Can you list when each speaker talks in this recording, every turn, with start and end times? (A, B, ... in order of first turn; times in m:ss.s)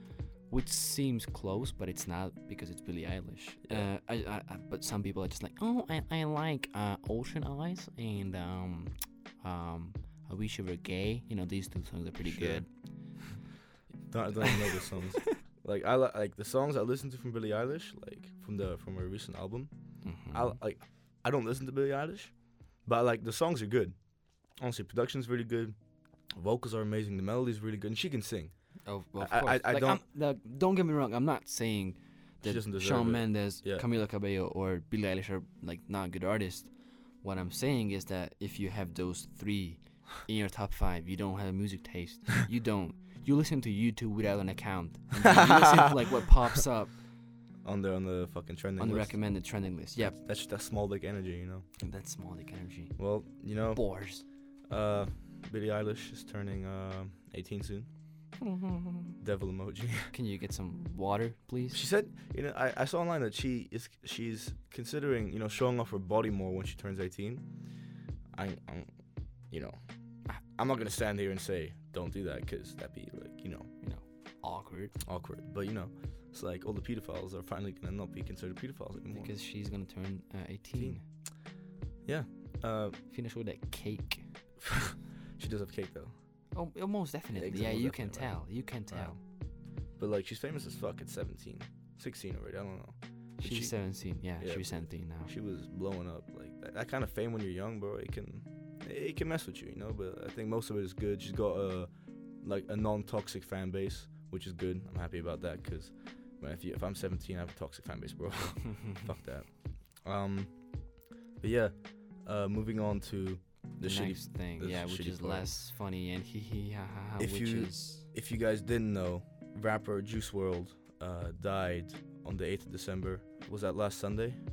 0:00.5-0:12.7 A
0:12.2-0:12.7 B
0:14.1-0:25.8 B
0:14.3-0:15.4 A
0:20.0-0:20.6 A
0:26.3-0:30.0 B
0:28.8-0:47.0 A
0:32.4-0:33.8 B
0:45.2-0:45.8 B
0:47.6-0:51.6 B
0:48.8-0:50.2 A
0:51.8-0:53.0 A
0:53.0-0:57.9 B
0:53.7-0:54.2 A
0:58.4-0:59.2 A
0:59.2-1:00.1 B
1:00.1-1:01.8 A
1:01.7-1:07.5 B
1:08.3-1:08.9 B
1:09.5-1:09.8 B
1:10.3-1:13.7 B
1:13.8-1:15.0 A
1:15.0-1:19.3 B
1:19.1-1:21.0 A
1:20.8-1:21.2 B
1:22.0-1:23.0 B
1:23.1-1:24.3 A
1:24.6-1:26.1 B
1:26.5-1:29.2 A
1:27.3-1:29.2 B
1:29.9-1:41.9 B
1:33.4-1:35.3 A
1:42.4-1:55.5 B
1:53.8-1:58.1 A
1:57.2-2:04.4 B